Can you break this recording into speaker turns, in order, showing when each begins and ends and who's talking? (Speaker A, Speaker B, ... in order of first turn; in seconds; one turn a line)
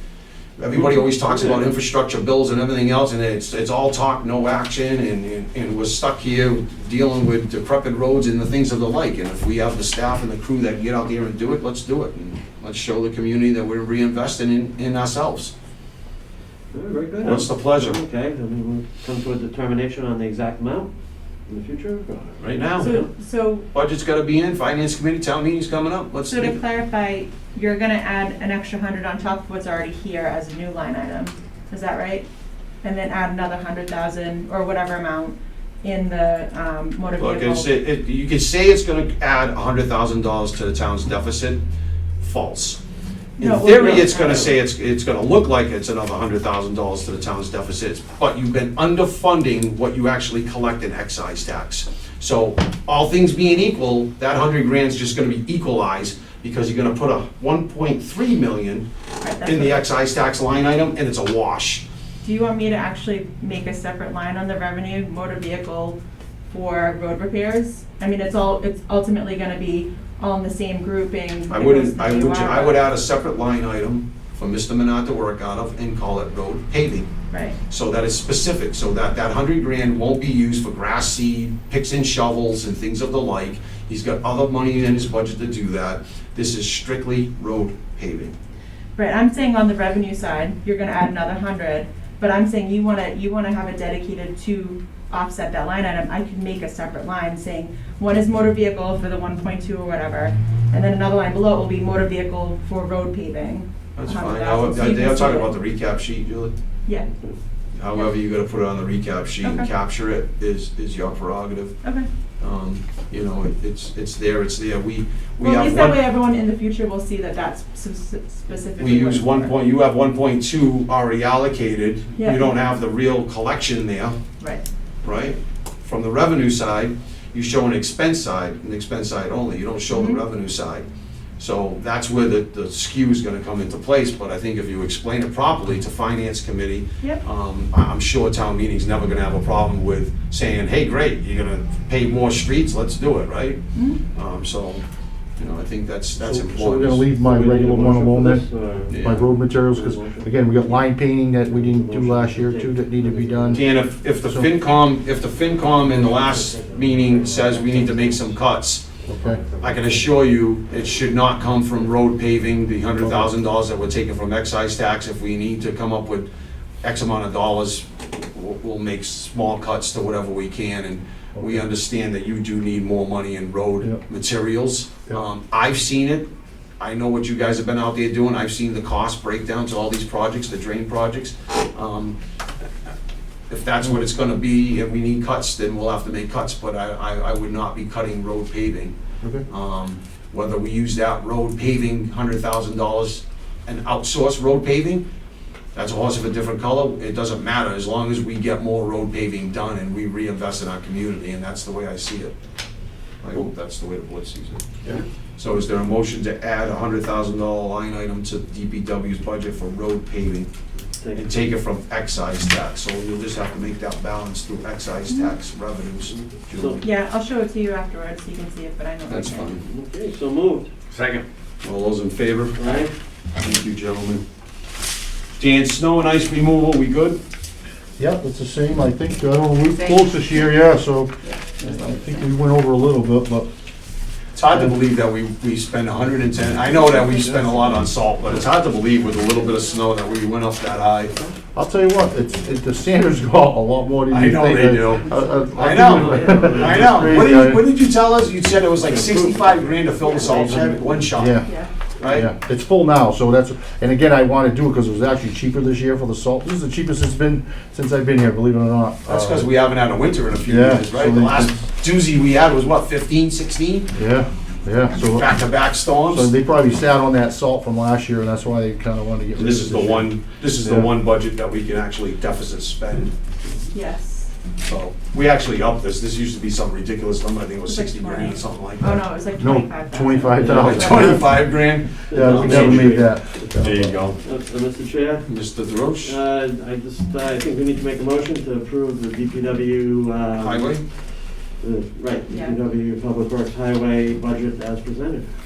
Speaker A: 0.6-15.5
Speaker B: 16.7-20.9
Speaker A: 17.2-18.0
Speaker B: 21.5-23.1
Speaker A: 22.4-23.0
Speaker C: 22.8-23.7
Speaker A: 23.7-26.6
Speaker C: 26.3-32.3
Speaker C: 32.8-37.7
Speaker A: 37.2-41.6
Speaker A: 42.2-42.8
Speaker C: 43.4-44.6
Speaker A: 43.4-58.9
Speaker C: 59.2-59.8
Speaker A: 59.4-61.8
Speaker C: 62.2-66.0
Speaker C: 66.5-72.8
Speaker A: 71.5-77.1
Speaker C: 77.3-77.6
Speaker A: 77.7-88.3
Speaker C: 89.0-105.5
Speaker A: 104.0-106.5
Speaker A: 107.8-111.8
Speaker C: 109.4-109.7
Speaker A: 112.4-116.0
Speaker C: 115.4-119.5
Speaker A: 118.8-124.2
Speaker C: 122.2-122.5
Speaker A: 125.0-130.9
Speaker C: 129.9-130.2
Speaker A: 131.4-143.6
Speaker C: 143.7-144.0
Speaker A: 144.1-144.8
Speaker A: 145.4-147.1
Speaker D: 146.2-153.7
Speaker B: 147.2-149.2
Speaker A: 148.9-149.3
Speaker B: 149.7-150.8
Speaker B: 151.5-153.8
Speaker A: 153.5-158.8
Speaker D: 154.2-154.5
Speaker B: 155.8-158.4
Speaker B: 159.0-160.6
Speaker D: 159.1-159.4
Speaker A: 159.6-166.3
Speaker D: 163.0-163.3
Speaker A: 166.8-176.3
Speaker A: 176.8-182.2
Speaker A: 183.5-188.9
Speaker A: 189.5-195.0
Speaker A: 195.7-202.3
Speaker A: 203.2-210.5
Speaker B: 211.0-211.5
Speaker A: 211.1-216.8
Speaker B: 216.1-216.8
Speaker C: 216.8-219.5
Speaker A: 219.1-219.6
Speaker B: 219.6-220.7
Speaker A: 221.0-222.8
Speaker B: 222.6-222.9
Speaker A: 223.3-224.2
Speaker A: 225.4-227.2
Speaker D: 228.0-233.5
Speaker C: 229.7-230.6
Speaker C: 231.2-232.2
Speaker A: 234.3-241.3
Speaker D: 237.2-237.6
Speaker D: 241.5-247.6
Speaker A: 244.1-251.4
Speaker B: 245.7-247.2
Speaker B: 248.8-251.2
Speaker D: 251.1-251.5
Speaker C: 251.4-251.7
Speaker A: 252.0-252.3
Speaker D: 252.1-259.5
Speaker A: 259.1-263.9
Speaker D: 260.5-261.6
Speaker D: 263.9-270.9
Speaker A: 264.9-266.3
Speaker A: 269.4-273.1
Speaker C: 273.7-274.3
Speaker A: 274.6-279.1
Speaker C: 277.7-281.0
Speaker D: 279.4-281.6
Speaker A: 280.4-284.2
Speaker B: 280.5-280.9
Speaker B: 282.1-283.1
Speaker D: 282.1-284.1
Speaker B: 284.2-285.5
Speaker A: 285.3-286.2
Speaker B: 286.0-295.3
Speaker A: 290.4-290.8
Speaker C: 292.3-292.6